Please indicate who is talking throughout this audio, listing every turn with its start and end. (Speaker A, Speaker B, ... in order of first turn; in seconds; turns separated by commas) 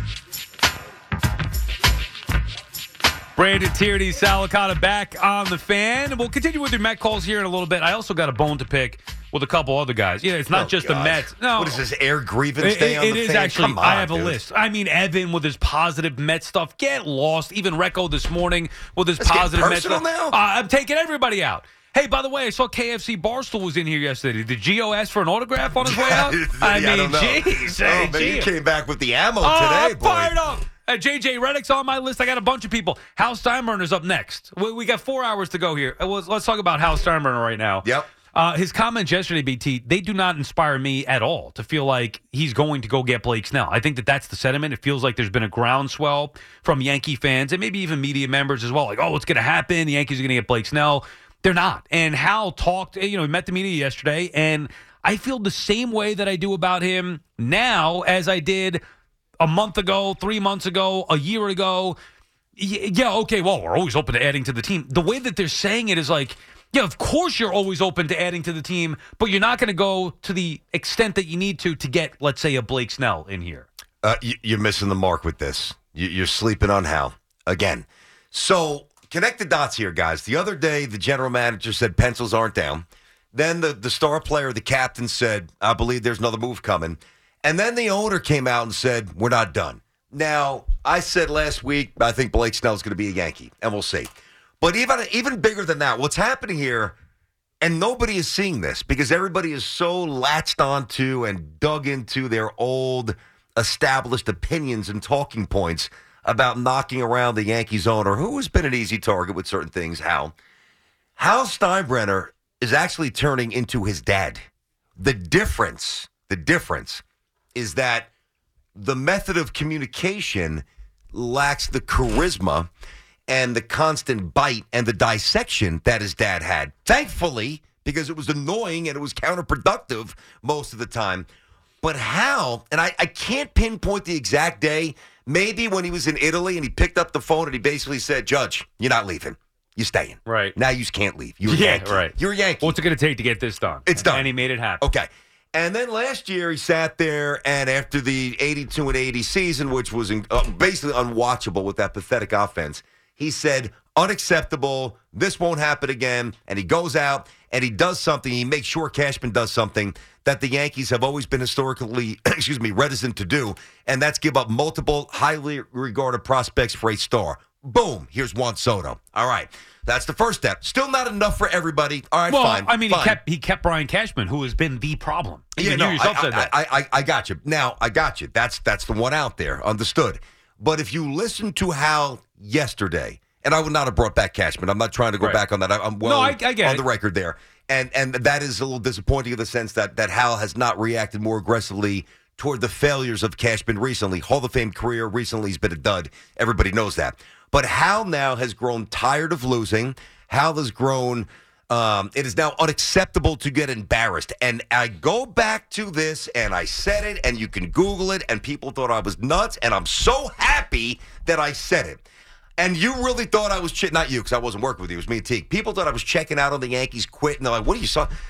Speaker A: 3.4-11.8, Speaker B: 10.5-14.4, Speaker A: 12.6-28.5, Speaker B: 19.2-20.4, Speaker B: 25.8-30.4, Speaker A: 29.4-58.8, Speaker A: 59.4-62.0, Speaker A: 62.6-73.7, Speaker B: 74.0-97.0, Speaker B: 97.6-110.3, Speaker B: 111.2-114.4, Speaker B: 115.0-117.0, Speaker B: 117.5-118.1, Speaker B: 118.8-122.7, Speaker B: 123.3-131.3, Speaker B: 131.8-142.8, Speaker A: 140.2-140.6, Speaker A: 141.4-144.8, Speaker B: 143.9-173.2, Speaker A: 172.3-176.5, Speaker B: 175.6-212.0, Speaker A: 186.0-186.8, Speaker B: 212.6-218.1